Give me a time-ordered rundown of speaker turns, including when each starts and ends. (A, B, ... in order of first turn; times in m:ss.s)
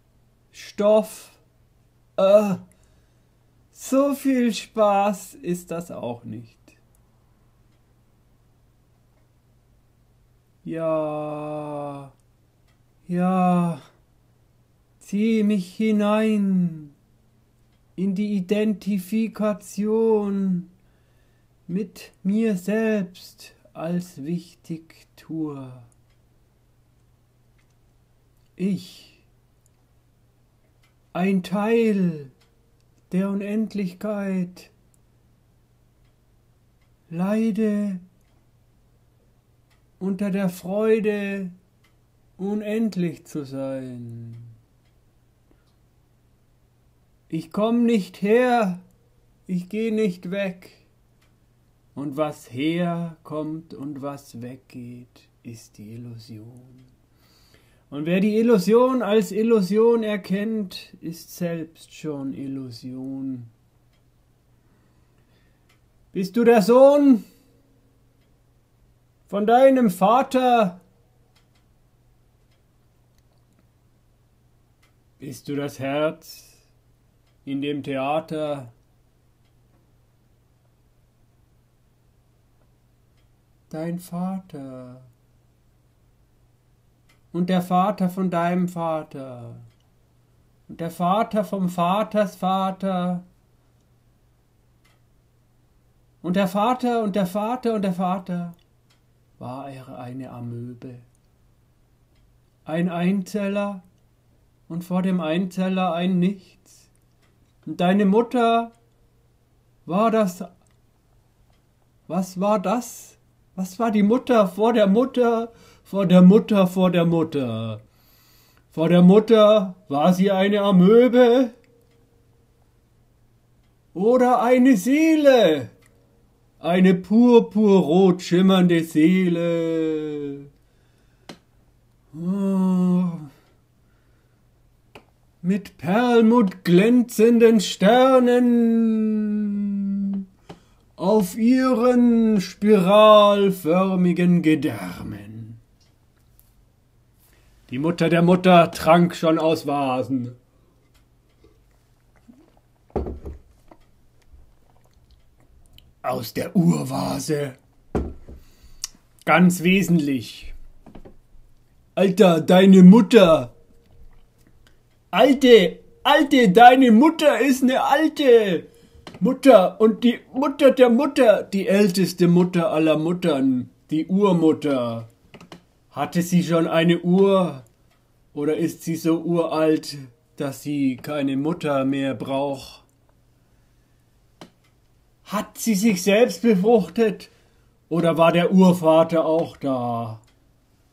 0:00.5-0:01.4 A
0:02.2-0:02.6 A
0:03.7-0:06.8 A
0:10.6-0:12.1 A
0:13.0-0:13.8 A
0:15.0-0:16.9 A
0:18.0-0:20.7 A
0:21.7-0:25.9 A
0:28.6-0:29.2 A
0:31.1-0:32.3 A
0:33.1-0:34.7 A
0:37.1-0:38.0 A
0:40.0-0:41.5 A
0:42.4-0:44.5 A
0:47.3-0:48.8 A
0:49.5-0:50.8 A
0:51.9-0:56.9 A
0:57.9-1:03.5 A
1:06.1-1:07.2 A
1:09.3-1:10.8 A
1:15.2-1:16.6 A
1:17.4-1:18.7 A
1:23.7-1:25.1 A
1:27.3-1:29.7 A
1:30.7-1:33.2 A
1:36.2-1:38.6 A
1:39.4-1:41.0 A
1:42.6-1:43.8 A
1:44.7-1:46.9 A
1:47.6-1:48.7 A
1:49.8-1:50.5 A
1:52.1-1:57.8 A
1:58.7-2:01.6 A
2:03.9-2:05.7 A
2:06.6-2:10.5 A
2:12.1-2:13.3 A
2:15.4-2:20.2 A
2:21.0-2:25.6 A
2:27.7-2:30.4 A
2:36.0-2:37.6 A
2:39.2-2:40.5 A
2:42.0-2:43.5 A
2:45.1-2:48.7 A
2:49.2-2:55.1 A
2:55.9-2:57.6 A
2:58.3-3:02.8 A
3:05.2-3:07.3 A
3:07.9-3:10.2 A